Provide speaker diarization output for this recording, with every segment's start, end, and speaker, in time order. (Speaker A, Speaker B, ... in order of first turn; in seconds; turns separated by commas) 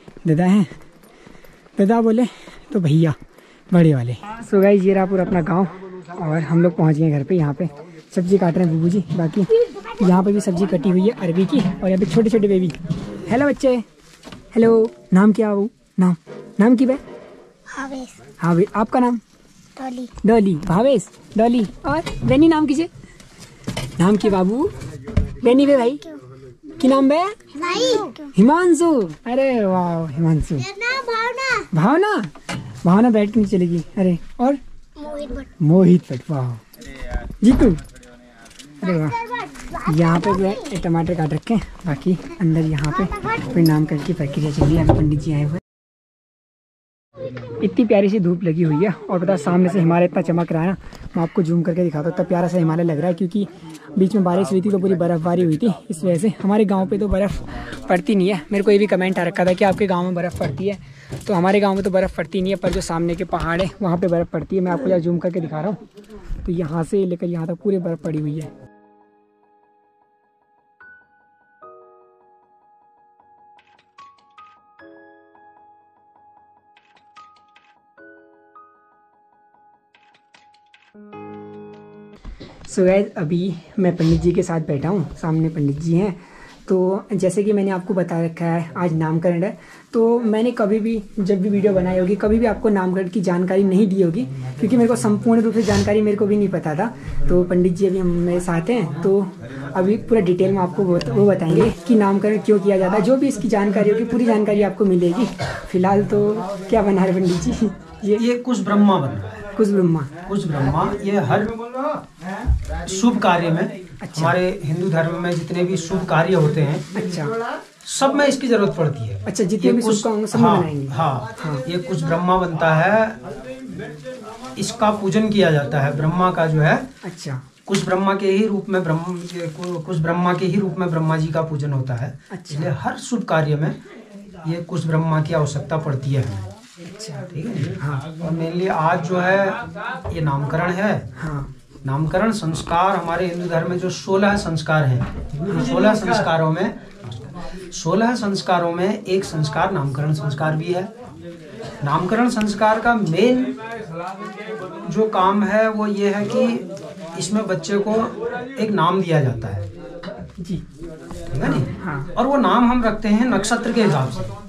Speaker A: 0.2-0.7, Speaker A: 1.8-3.1, Speaker A: 3.7-13.8, Speaker A: 14.5-17.0, Speaker B: 17.7-18.1, Speaker A: 18.4-19.2, Speaker B: 19.8-20.1, Speaker A: 20.0-22.9, Speaker A: 24.0-24.7, Speaker A: 25.4-26.2, Speaker A: 26.8-30.9, Speaker B: 27.7-28.2, Speaker B: 30.8-31.6, Speaker A: 31.5-32.3, Speaker A: 32.8-34.6, Speaker B: 35.0-35.4, Speaker A: 35.3-36.6, Speaker A: 37.4-37.8, Speaker A: 38.8-45.6, Speaker A: 47.5-65.8, Speaker A: 66.4-68.5, Speaker A: 82.7-108.2, Speaker C: 108.2-109.4, Speaker A: 109.5-110.1, Speaker C: 110.3-111.8, Speaker C: 112.8-116.9, Speaker A: 114.0-114.4, Speaker A: 116.9-117.3, Speaker C: 117.8-123.2, Speaker A: 119.2-121.6, Speaker C: 124.6-126.9, Speaker A: 127.0-127.4, Speaker C: 127.7-133.8, Speaker A: 132.3-132.7, Speaker C: 134.4-136.5, Speaker A: 136.9-138.1, Speaker C: 137.3-141.1, Speaker A: 141.2-141.5, Speaker C: 141.8-150.9, Speaker A: 145.4-145.9, Speaker C: 151.8-153.6, Speaker C: 154.8-159.7, Speaker C: 161.3-164.3, Speaker A: 161.4-162.1